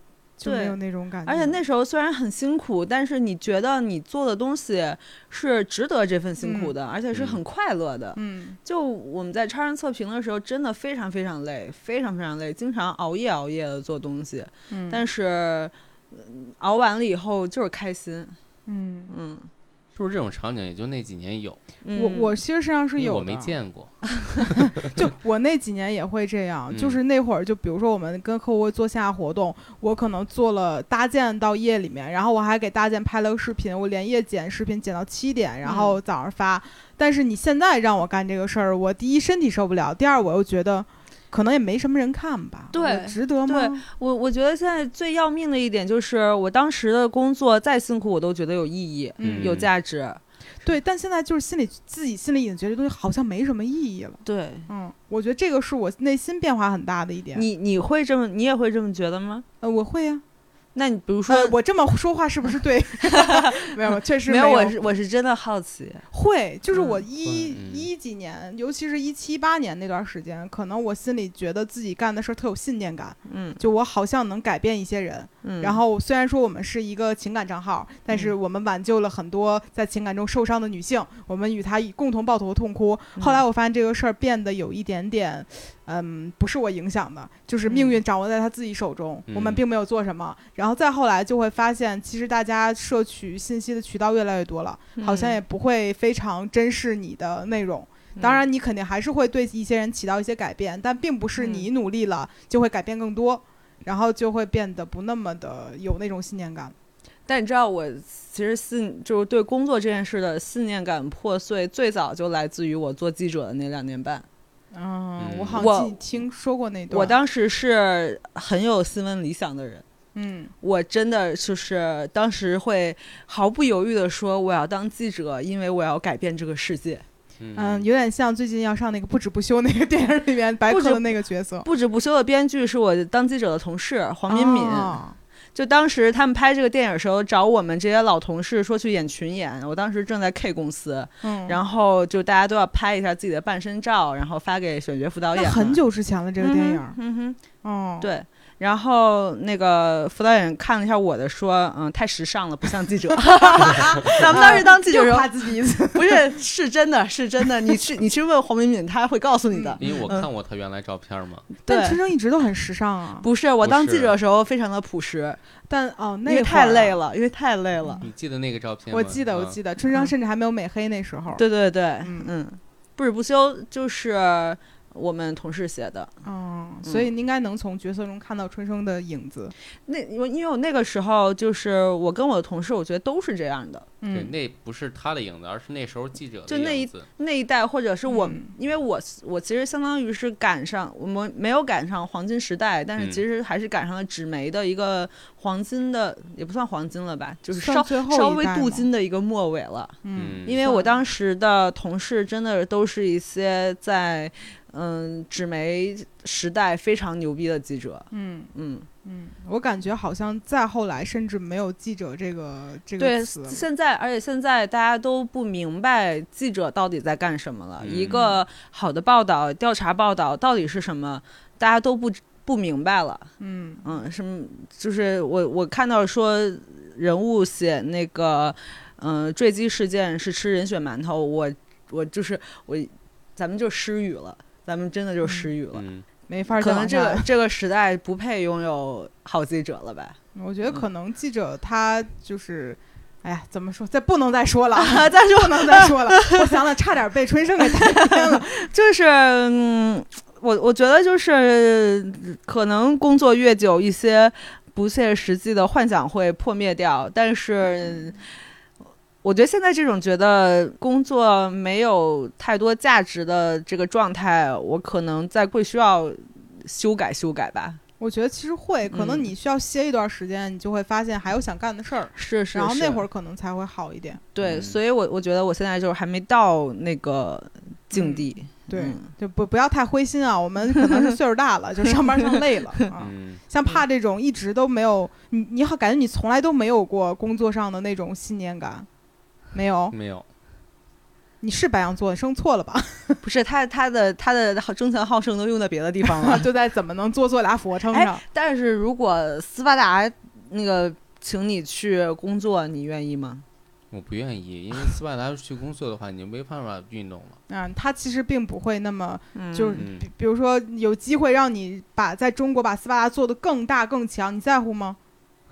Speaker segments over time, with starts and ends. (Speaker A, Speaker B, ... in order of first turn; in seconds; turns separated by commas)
Speaker A: 0.4-1.6, Speaker B: 0.4-18.4, Speaker A: 6.4-6.7, Speaker C: 7.1-7.4, Speaker A: 8.2-8.6, Speaker A: 14.7-15.0, Speaker A: 18.7-19.1, Speaker B: 19.1-19.5, Speaker C: 20.0-21.6, Speaker B: 21.9-22.4, Speaker A: 21.9-23.6, Speaker C: 23.0-24.7, Speaker A: 24.6-43.8, Speaker C: 26.7-27.0, Speaker B: 35.6-36.0, Speaker B: 42.7-50.2, Speaker A: 49.2-49.6, Speaker C: 49.2-49.7, Speaker A: 50.6-57.5, Speaker B: 54.2-54.7, Speaker B: 57.3-59.5, Speaker A: 59.6-60.2, Speaker B: 60.8-61.5, Speaker A: 61.3-64.8, Speaker B: 63.1-66.1, Speaker A: 66.1-106.8, Speaker B: 66.7-67.0, Speaker C: 67.2-67.9, Speaker B: 73.3-73.6, Speaker B: 75.4-75.8, Speaker B: 83.2-83.4, Speaker B: 87.7-88.0, Speaker C: 89.3-89.6, Speaker B: 95.0-95.4, Speaker B: 98.2-98.4, Speaker B: 101.4-101.7, Speaker B: 107.3-114.3, Speaker A: 114.7-117.2, Speaker C: 115.2-115.7, Speaker B: 115.6-116.0, Speaker B: 116.9-119.8, Speaker A: 120.2-120.5, Speaker B: 120.6-127.0, Speaker C: 127.4-127.9, Speaker A: 127.5-131.7, Speaker B: 130.7-131.1, Speaker B: 131.6-135.0, Speaker A: 134.3-135.2, Speaker B: 135.6-145.8, Speaker A: 141.2-141.6, Speaker A: 145.4-147.0, Speaker B: 146.4-147.4, Speaker A: 147.6-148.1, Speaker B: 148.0-155.3, Speaker A: 153.3-156.2, Speaker B: 155.9-160.3, Speaker A: 159.5-160.0, Speaker C: 159.8-161.5, Speaker B: 161.6-162.0, Speaker A: 161.7-163.3, Speaker B: 163.2-165.4, Speaker C: 163.6-164.1, Speaker A: 165.7-167.0, Speaker B: 166.3-168.0, Speaker C: 168.0-169.6, Speaker A: 168.9-171.4, Speaker B: 171.3-176.1, Speaker A: 172.0-172.3, Speaker A: 176.2-179.5, Speaker B: 179.9-183.9, Speaker A: 184.0-184.3, Speaker C: 184.1-187.1, Speaker B: 186.5-208.9, Speaker A: 188.1-188.5, Speaker A: 197.6-198.9, Speaker A: 200.0-200.9, Speaker C: 200.2-200.6, Speaker A: 208.1-208.5, Speaker A: 209.1-213.7, Speaker B: 213.0-223.3, Speaker C: 217.8-218.2, Speaker A: 218.1-218.4, Speaker A: 223.4-223.8, Speaker B: 223.8-235.8, Speaker A: 235.2-235.5, Speaker C: 235.7-236.1, Speaker A: 236.3-237.3, Speaker B: 236.6-240.2, Speaker A: 240.3-248.5, Speaker B: 244.8-246.5, Speaker B: 247.8-258.2, Speaker B: 259.2-267.8, Speaker A: 268.0-274.2, Speaker B: 268.9-269.3, Speaker B: 272.1-273.0, Speaker B: 274.4-279.1, Speaker C: 274.4-274.8, Speaker A: 277.9-288.9, Speaker C: 282.9-283.4, Speaker A: 289.5-289.9, Speaker C: 289.9-290.2, Speaker A: 291.4-293.2, Speaker B: 293.2-296.5, Speaker A: 296.0-298.2, Speaker B: 297.9-303.4, Speaker C: 303.9-307.4, Speaker A: 307.5-315.0, Speaker B: 309.3-309.9, Speaker C: 309.8-310.1